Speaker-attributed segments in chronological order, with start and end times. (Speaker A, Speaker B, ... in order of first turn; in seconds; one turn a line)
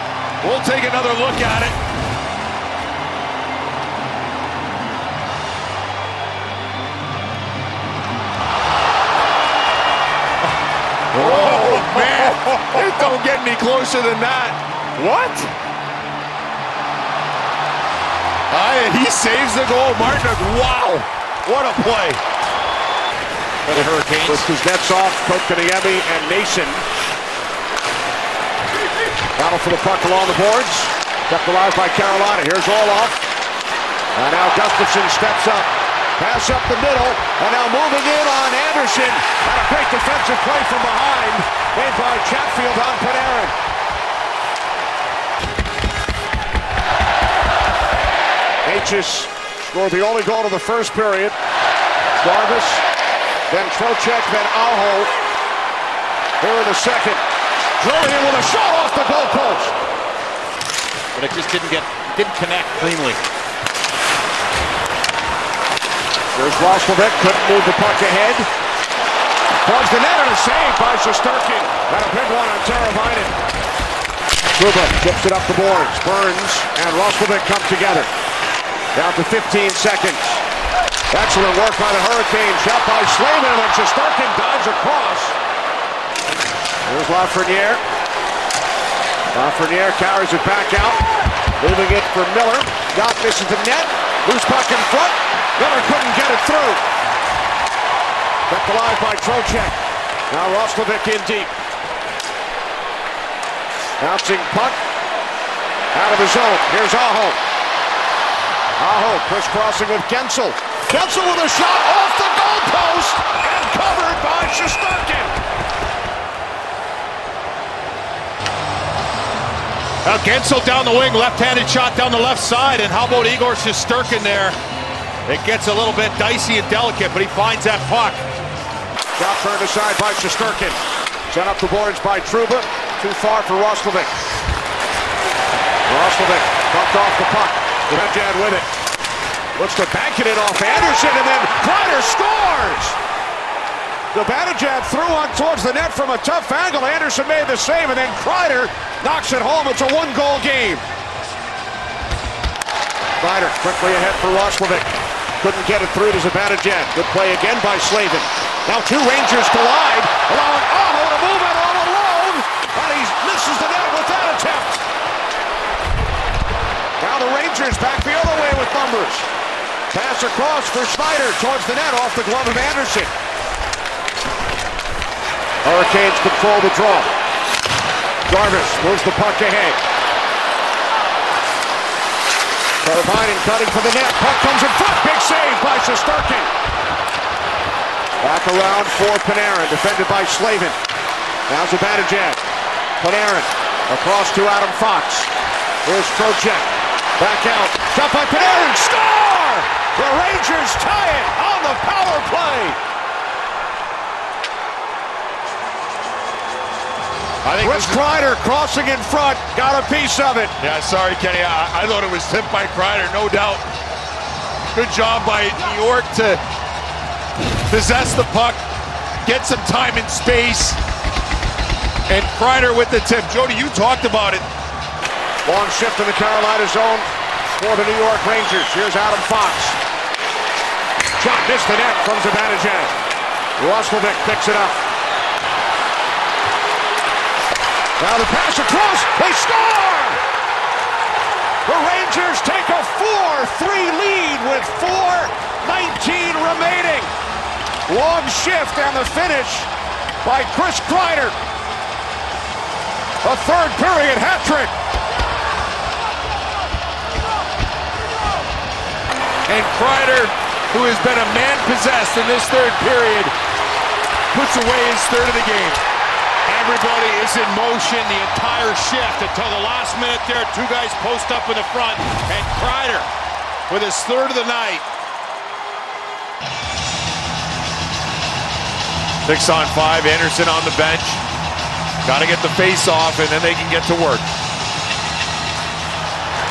Speaker A: 0.4-1.8
Speaker A: 11.1-14.6
Speaker B: 11.2-12.1
Speaker B: 15.0-15.5
Speaker A: 18.5-22.2
Speaker C: 23.6-26.8
Speaker B: 23.8-24.4
Speaker C: 29.4-33.3
Speaker C: 34.1-43.5
Speaker C: 48.6-51.3
Speaker C: 52.2-52.8
Speaker C: 53.5-55.1
Speaker C: 56.4-57.2
Speaker C: 57.8-59.7
Speaker B: 61.1-63.2
Speaker C: 66.3-68.5
Speaker C: 69.6-73.3
Speaker C: 74.5-78.1
Speaker C: 78.9-80.4
Speaker C: 81.1-85.4
Speaker C: 86.8-87.8
Speaker C: 89.3-91.0
Speaker C: 91.6-96.8
Speaker C: 98.5-99.8
Speaker C: 100.3-101.5
Speaker C: 104.0-104.8
Speaker C: 105.9-107.4
Speaker C: 108.8-115.3
Speaker B: 120.0-124.5
Speaker B: 125.3-128.2
Speaker C: 129.2-134.1
Speaker C: 135.9-138.7
Speaker C: 139.6-143.0
Speaker C: 144.1-150.8
Speaker C: 153.2-154.9
Speaker C: 155.4-164.8
Speaker C: 167.0-169.3
Speaker C: 169.9-173.1
Speaker C: 175.6-177.1
Speaker C: 178.2-179.8
Speaker C: 182.8-186.5
Speaker C: 188.2-190.8
Speaker C: 191.5-192.4
Speaker C: 193.0-195.3
Speaker C: 195.8-202.8
Speaker A: 207.4-208.0
Speaker C: 207.6-210.5
Speaker A: 210.6-213.6
Speaker A: 214.7-216.4
Speaker A: 217.7-218.6
Speaker A: 219.2-220.8
Speaker A: 222.1-224.4
Speaker C: 225.4-229.8
Speaker C: 231.2-232.9
Speaker C: 233.6-234.8
Speaker C: 238.0-240.2
Speaker C: 241.7-247.1
Speaker C: 247.9-249.7
Speaker C: 250.2-251.3
Speaker C: 253.2-254.7
Speaker A: 259.5-263.3
Speaker A: 264.3-265.8
Speaker B: 266.4-273.1
Speaker B: 273.7-274.7
Speaker A: 273.7-274.8
Speaker A: 279.2-281.2
Speaker A: 282.0-284.3